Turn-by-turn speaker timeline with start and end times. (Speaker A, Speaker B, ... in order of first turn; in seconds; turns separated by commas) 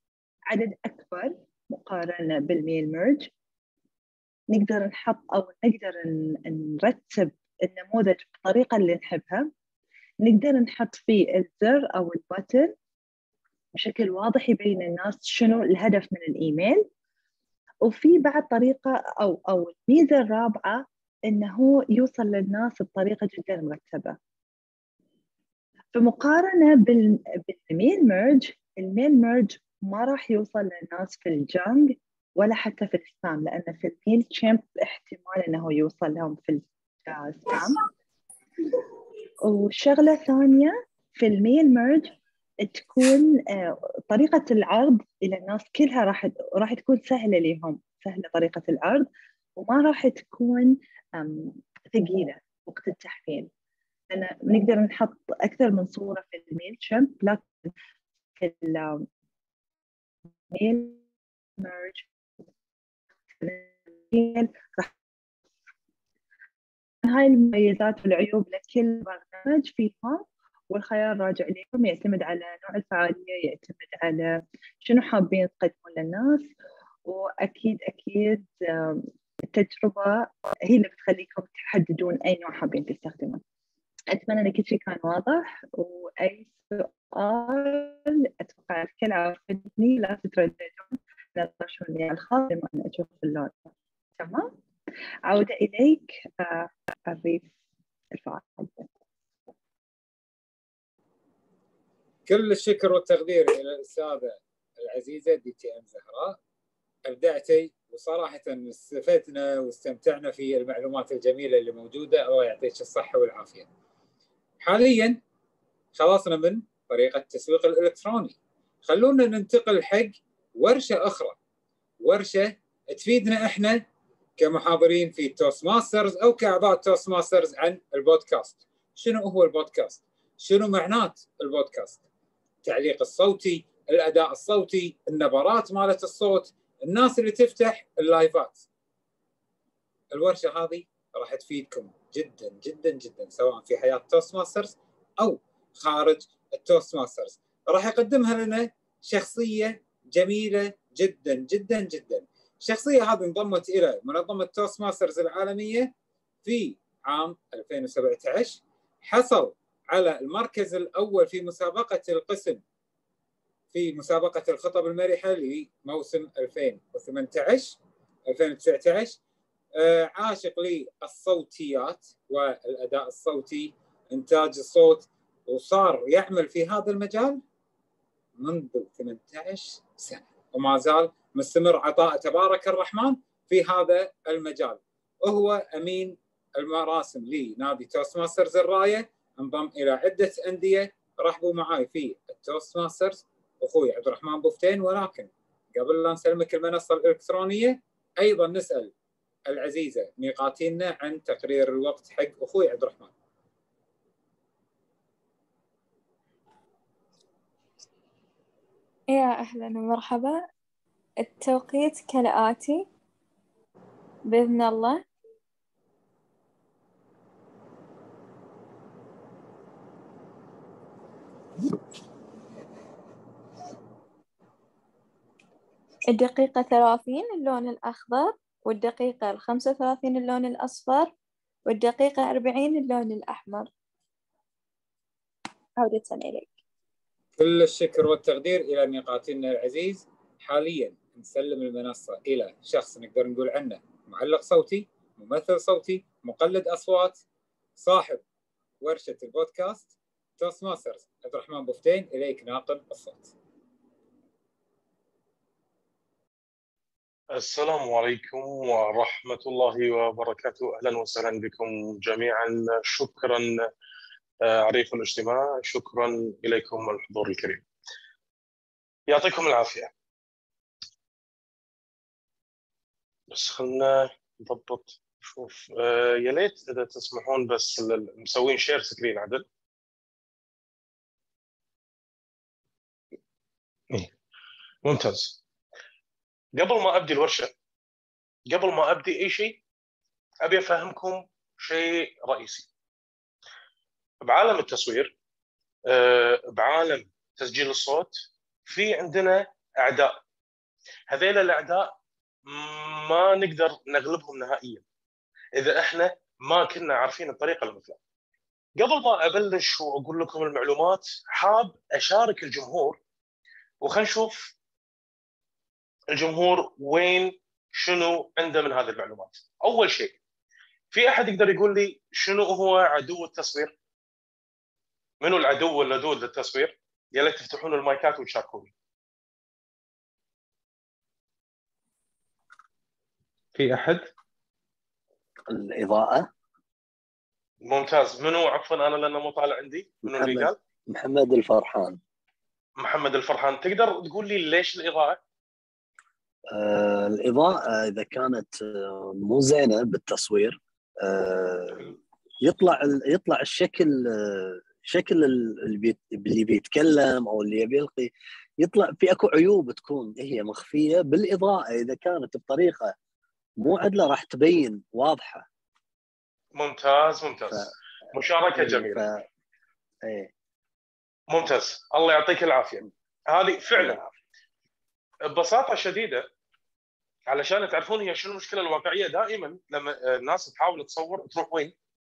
Speaker A: 0.5-3.3, Speaker A: 4.5-9.5, Speaker A: 10.2-12.7, Speaker A: 13.7-16.9, Speaker A: 17.8-24.2, Speaker A: 25.9-37.9, Speaker A: 39.4-53.5, Speaker A: 54.1-57.7, Speaker A: 58.4-59.1, Speaker A: 60.5-61.0, Speaker A: 61.6-62.1, Speaker A: 63.4-64.9, Speaker A: 67.0-76.5, Speaker A: 77.1-83.4, Speaker A: 84.1-94.5, Speaker A: 95.3-97.5, Speaker A: 98.1-98.9, Speaker B: 102.3-106.4, Speaker B: 107.1-113.7, Speaker B: 114.6-115.2, Speaker B: 116.0-121.4, Speaker B: 122.0-123.8, Speaker B: 124.4-132.0, Speaker B: 132.6-138.7, Speaker B: 140.1-155.9, Speaker B: 156.4-162.6, Speaker B: 163.7-167.8, Speaker B: 168.3-169.2, Speaker B: 169.8-177.4, Speaker B: 178.4-198.9, Speaker B: 199.5-203.1, Speaker C: 209.1-210.5, Speaker C: 211.2-212.8, Speaker C: 214.3-215.0, Speaker C: 226.1-231.1, Speaker C: 231.7-233.7, Speaker C: 235.8-236.5, Speaker B: 237.4-247.2, Speaker B: 247.8-248.2, Speaker B: 248.8-253.3, Speaker D: 257.3-263.7, Speaker D: 264.4-267.6, Speaker D: 269.1-269.9, Speaker D: 273.3-279.4, Speaker D: 284.8-285.4, Speaker D: 286.6-287.5, Speaker D: 288.5-289.6, Speaker D: 290.4-292.7, Speaker D: 294.2-295.1, Speaker D: 295.9-300.2, Speaker D: 301.1-301.9, Speaker D: 302.5-304.8, Speaker D: 305.6-308.0, Speaker D: 308.8-313.0, Speaker D: 313.8-314.5, Speaker D: 316.1-320.2, Speaker D: 320.9-323.7, Speaker D: 325.2-328.7, Speaker D: 333.6-334.1, Speaker E: 335.5-336.3, Speaker D: 337.6-340.6, Speaker E: 340.1-342.0, Speaker D: 342.8-345.2, Speaker E: 346.5-362.9, Speaker E: 363.6-365.5, Speaker D: 366.6-369.0, Speaker E: 368.5-369.2, Speaker D: 371.3-374.0, Speaker E: 373.8-374.1, Speaker D: 375.3-376.3, Speaker D: 377.3-381.7